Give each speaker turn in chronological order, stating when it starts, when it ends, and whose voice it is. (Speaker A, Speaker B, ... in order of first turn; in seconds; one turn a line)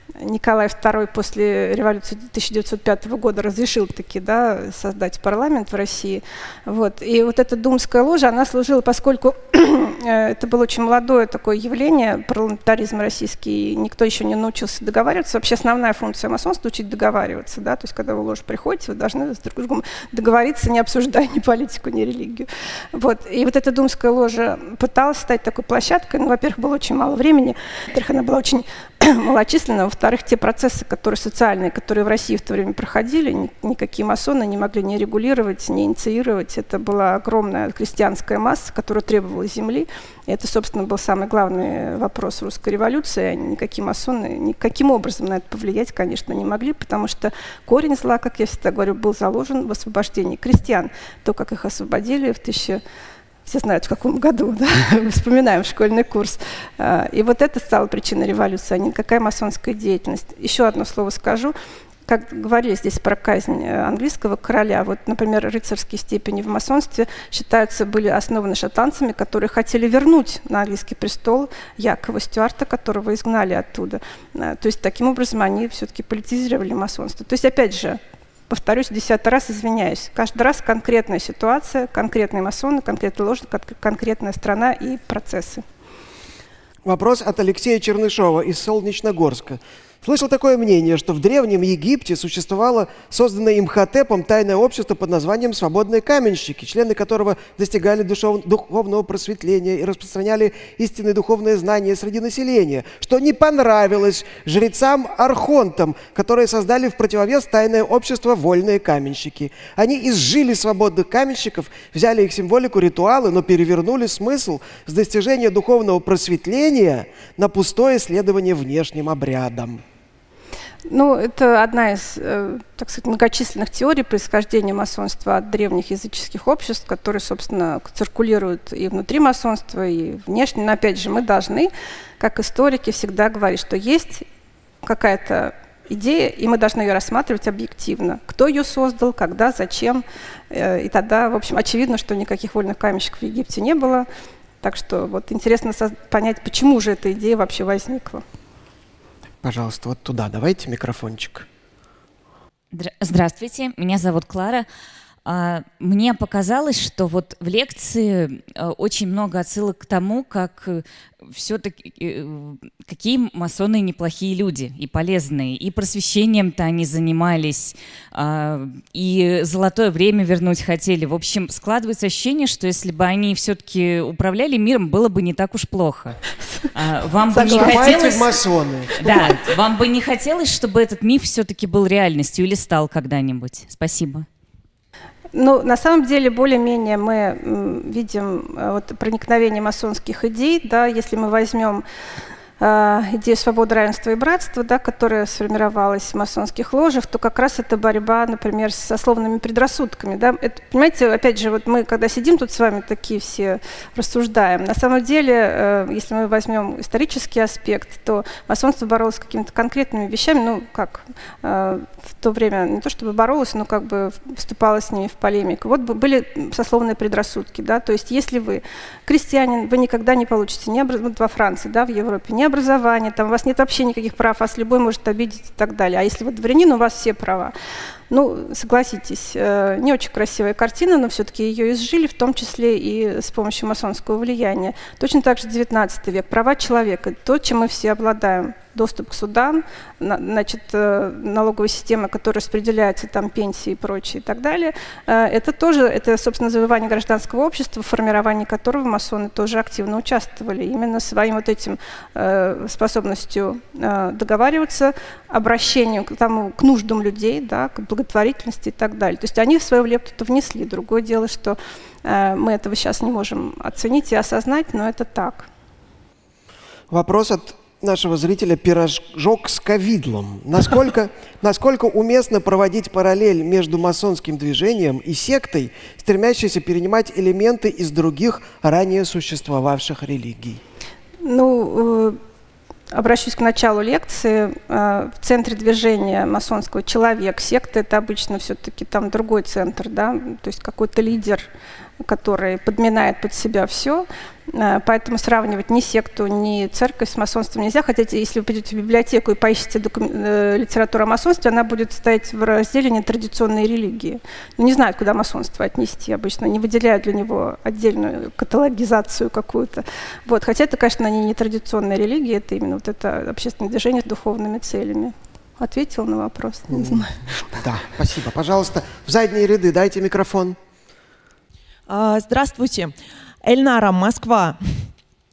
Speaker A: 0.2-52.8
Speaker A: 53.5-61.5
Speaker A: 62.1-85.6
Speaker B: 86.8-119.8
Speaker A: 120.9-134.2
Speaker A: 134.8-144.1
Speaker A: 144.6-148.2
Speaker B: 149.4-151.5
Speaker C: 152.7-154.7
Speaker C: 155.2-176.2
Speaker C: 176.7-178.4
Speaker A: 177.3-178.0
Speaker B: 177.4-179.2
Speaker C: 179.0-184.3
Speaker A: 185.3-191.8
Speaker A: 192.6-227.5
Speaker A: 228.1-265.5
Speaker B: 266.9-280.6
Speaker A: 281.2-282.2
Speaker A: 282.9-291.5
Speaker A: 292.0-317.3
Speaker B: 316.7-320.6
Speaker D: 321.9-324.9